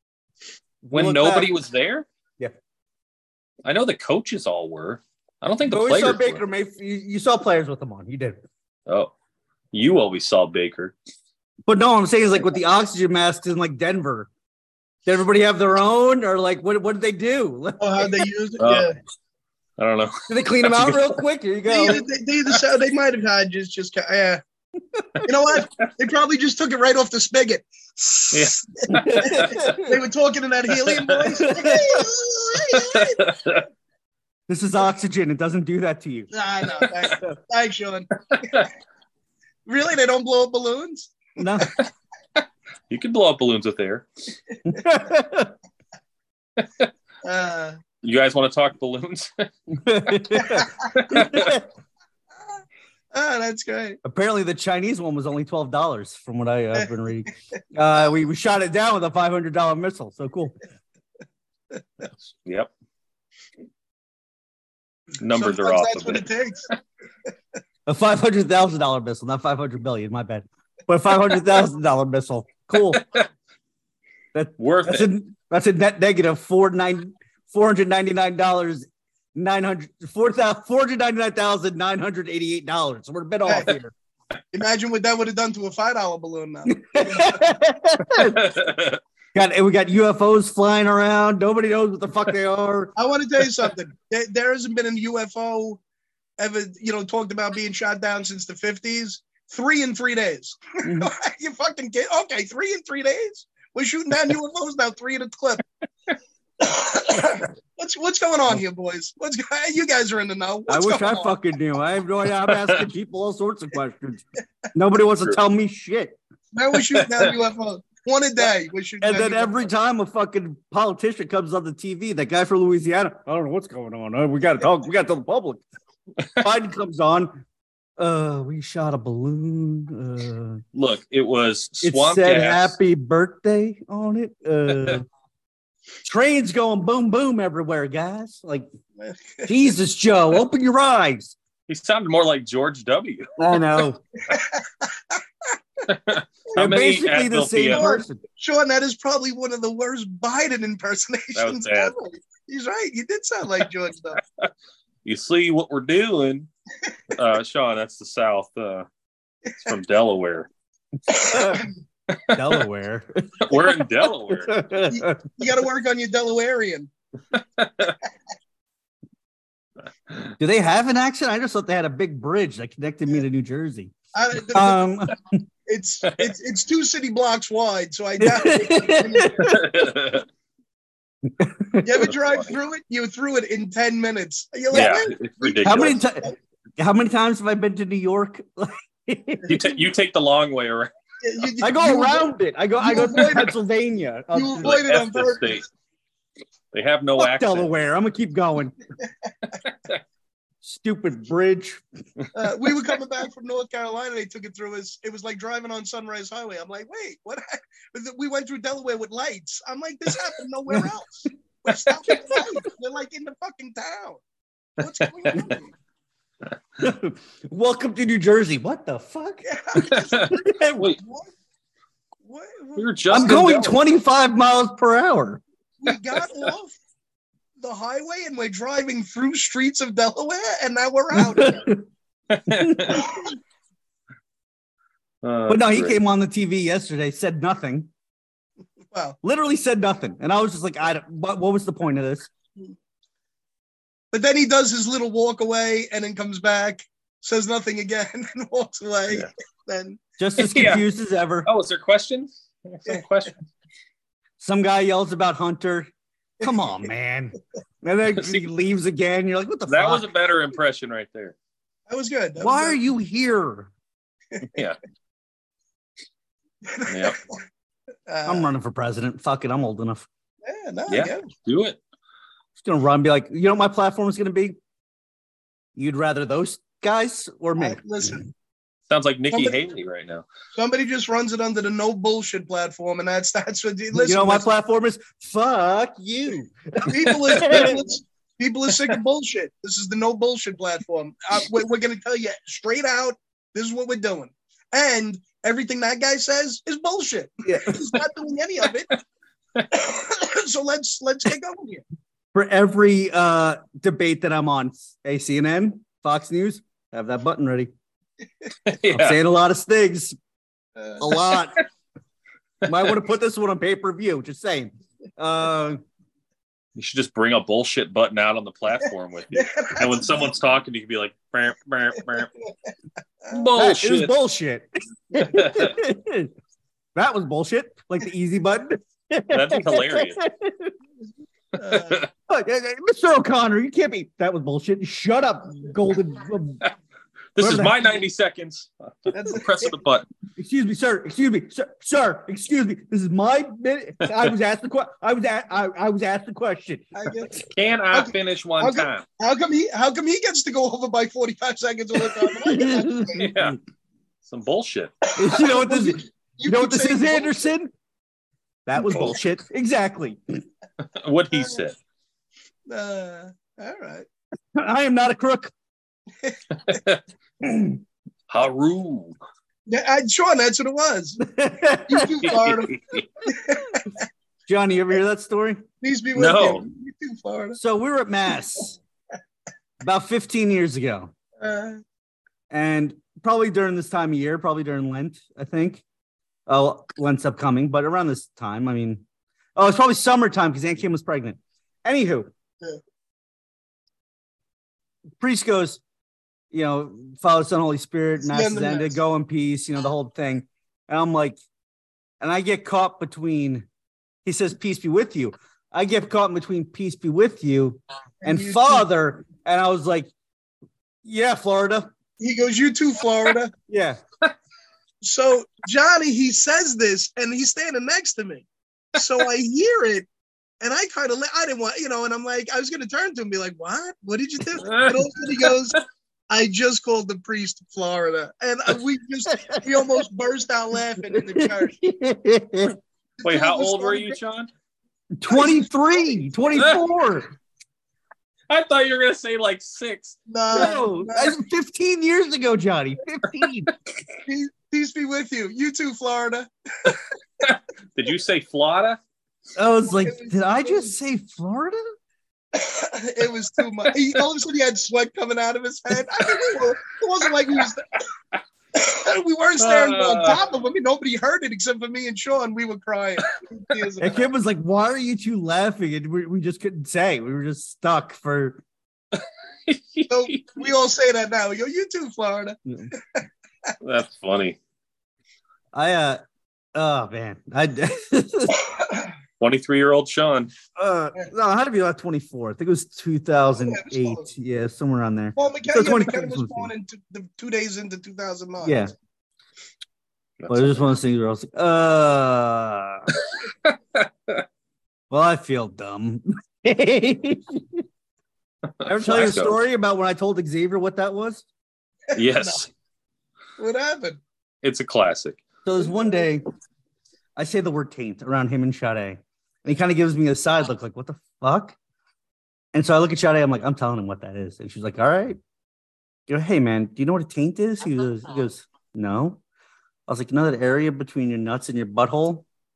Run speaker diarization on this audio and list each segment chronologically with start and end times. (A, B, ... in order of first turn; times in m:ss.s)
0:00.8-0:01.5 A
0:00.9-0:02.0 B
0:03.6-0:06.4 B
0:05.7-0:08.4 A
0:08.9-0:09.1 B
0:09.7-0:10.9 B
0:11.7-0:14.3 A
0:15.0-0:18.2 A
0:17.8-0:18.9 C
0:18.6-0:18.9 B
0:19.8-0:21.2 B
0:20.3-0:22.0 A
0:21.7-0:24.4 C
0:25.0-0:25.3 A
0:25.2-0:33.2 C
0:28.3-0:29.8 B
0:28.9-0:29.9 A
0:30.8-0:31.5 B
0:31.4-0:32.1 A
0:32.7-0:33.7 B
0:34.5-0:36.3 A
0:36.3-0:38.6 C
0:38.3-0:38.7 B
0:39.6-0:41.1 C
0:41.4-0:41.7 A
0:42.9-0:44.0 B
0:44.6-0:45.5 A
0:46.6-0:46.9 B
0:47.2-0:47.8 C
0:48.0-0:49.5 B
0:49.7-0:51.6 A
0:50.3-0:50.9 C
0:50.9-0:51.6 B
0:53.1-0:54.0 C
0:54.0-1:00.6 A
1:02.4-1:02.7 B
1:05.2-1:06.2 B
1:05.3-1:06.6 C
1:07.8-1:13.0 A
1:12.9-1:13.3 B
1:14.3-1:23.9 A
1:14.6-1:15.1 B
1:23.4-1:23.7 C
1:24.5-1:27.4 C
1:26.7-1:28.6 A
1:28.1-1:29.0 B
1:29.3-1:32.9 A
1:33.0-1:35.8 C
1:36.4-1:45.7 C
1:40.8-1:41.1 A
1:46.6-1:51.4 C
1:50.7-1:56.2 A
1:52.4-1:52.8 B
1:56.5-1:59.5 C
1:56.7-1:57.3 B
1:59.0-2:05.6 A
2:06.4-2:07.4 A
2:08.0-2:10.6 A
2:10.7-2:12.8 B
2:11.8-2:15.0 A
2:16.0-2:18.7 A
2:19.0-2:19.7 C
2:19.5-2:21.4 A
2:21.7-2:23.3 B
2:23.4-2:24.0 A
2:24.2-2:25.2 C
2:25.8-2:27.9 B
2:26.6-2:28.2 A
2:27.7-2:34.2 C
2:31.3-2:31.9 B
2:35.0-2:36.5 B
2:37.1-2:38.9 B
2:39.6-2:40.5 B
2:41.1-2:41.7 C
2:41.2-2:41.7 A
2:42.1-2:42.6 B
2:42.3-2:45.2 A
2:43.4-2:44.6 B
2:44.9-2:46.9 C
2:47.3-2:48.0 B
2:50.4-2:53.9 A
2:54.1-2:54.9 C
2:54.5-2:55.4 A
2:55.7-2:59.6 C
2:58.2-2:59.8 A
2:59.4-3:00.2 B
3:01.3-3:02.1 A
3:01.8-3:06.3 C
3:04.7-3:06.0 B
3:05.6-3:09.5 A
3:09.4-3:10.9 B
3:11.2-3:13.5 C
3:11.6-3:14.8 A
3:14.3-3:15.6 C
3:14.6-3:15.6 B
3:16.7-3:17.7 B
3:17.2-3:18.8 A
3:19.6-3:19.9 B
3:20.6-3:21.8 A
3:22.3-3:34.2 C
3:32.1-3:32.4 A
3:34.8-3:35.7 C
3:36.8-3:40.9 A
3:39.4-3:40.3 C
3:39.8-3:41.0 B
3:41.0-3:41.3 C
3:42.2-3:43.4 C
3:42.8-3:43.8 B
3:43.1-3:45.4 A
3:45.8-3:46.7 C
3:47.6-3:51.7 C
3:51.1-3:51.8 A
3:52.3-3:53.1 B
3:52.5-3:53.2 A
3:52.9-3:53.2 C
3:55.2-3:56.0 B
3:55.5-3:57.9 A
3:59.2-4:02.3 A
4:04.1-4:10.0 C
4:10.2-4:11.5 A
4:10.4-4:10.8 B
4:11.4-4:13.4 B
4:14.4-4:20.1 A
4:18.2-4:18.4 B
4:19.7-4:21.3 B
4:21.9-4:22.8 C
4:22.4-4:23.7 A
4:24.5-4:24.8 B
4:26.6-4:27.4 C
4:26.9-4:27.2 B
4:28.1-4:28.5 C
4:28.2-4:30.0 A
4:30.4-4:31.3 C
4:30.9-4:31.8 B
4:32.6-4:34.6 A
4:35.8-4:38.2 A
4:37.6-4:38.2 C
4:38.9-4:40.2 B
4:39.3-4:39.6 C
4:40.5-4:44.4 C
4:43.9-4:47.8 A
4:46.8-4:59.0 C
4:57.5-4:58.0 A
4:59.7-5:01.8 C
5:02.3-5:07.7 A
5:08.6-5:09.2 B
5:08.9-5:10.2 A
5:10.8-5:11.3 C
5:11.0-5:11.6 A
5:12.6-5:15.8 A
5:16.8-5:22.3 B
5:19.3-5:20.3 C
5:23.3-5:24.1 B
5:23.5-5:26.3 A
5:25.3-5:25.7 B
5:26.9-5:30.7 A
5:29.3-5:30.2 B
5:31.6-5:32.1 C
5:31.6-5:32.1 B
5:32.3-5:36.6 A
5:37.4-5:40.1 B
5:37.4-5:37.9 A
5:39.1-5:39.7 C
5:40.4-5:47.1 A
5:46.9-5:53.3 C
5:47.5-5:49.0 B
5:52.4-5:53.5 A
5:53.1-5:53.6 B
5:54.2-5:55.0 B
5:55.1-5:57.5 C
5:55.2-5:57.7 A
5:58.6-6:00.4 A
5:58.8-5:59.2 B
6:00.8-6:01.8 B
6:01.3-6:01.7 C
6:02.7-6:04.1 C
6:04.5-6:05.5 A
6:06.5-6:07.0 B
6:07.4-6:07.8 A
6:08.3-6:09.2 B
6:09.7-6:11.2 C
6:11.2-6:12.4 A
6:11.8-6:12.7 C
6:12.2-6:13.1 B
6:13.2-6:14.0 C
6:14.5-6:15.6 A
6:15.8-6:17.6 C
6:16.2-6:16.6 B
6:17.6-6:18.8 A
6:19.8-6:21.1 A
6:21.4-6:21.8 C
6:22.5-6:25.8 A
6:26.5-6:29.0 A
6:29.6-6:32.3 A
6:35.2-6:35.8 A
6:36.5-6:41.4 A
6:38.2-6:39.0 C
6:42.2-6:43.6 A
6:44.2-6:50.1 A
6:48.2-6:48.8 C
6:51.0-6:51.9 A
6:52.2-6:53.5 C
6:53.7-6:54.0 A
6:55.0-7:00.0 C
7:00.6-7:05.8 C
7:04.6-7:05.6 B
7:06.3-7:11.8 C
7:09.3-7:09.8 A
7:11.0-7:12.8 A
7:13.2-7:14.2 C
7:13.2-7:14.5 B
7:15.2-7:17.3 A
7:15.3-7:16.2 C
7:18.5-7:20.2 B
7:20.3-7:21.4 C
7:20.5-7:23.7 A
7:24.3-7:27.0 C
7:26.9-7:29.0 B
7:29.6-7:31.8 A
7:30.0-7:30.9 C
7:32.5-7:38.0 C
7:38.7-7:44.2 C
7:39.6-7:40.4 B
7:44.0-7:48.6 A
7:49.7-7:50.6 B
7:50.1-7:53.2 C
7:53.8-7:54.6 B
7:55.7-7:56.2 A
7:56.7-7:58.6 A
7:58.7-7:59.1 C
7:59.4-8:00.5 B
8:00.8-8:06.7 A
8:03.6-8:04.2 C
8:05.4-8:08.9 C
8:08.6-8:08.9 A
8:10.4-8:10.8 B
8:10.5-8:13.1 A
8:13.3-8:14.4 B
8:15.1-8:17.8 A
8:18.8-8:19.6 B
8:18.8-8:21.4 A
8:22.1-8:22.6 C
8:22.1-8:22.7 B
8:23.6-8:24.2 C
8:24.6-8:25.4 B
8:25.6-8:26.4 A
8:25.8-8:26.2 C
8:27.4-8:31.8 A
8:32.7-8:35.4 A
8:36.3-8:39.4 A
8:40.1-8:42.4 A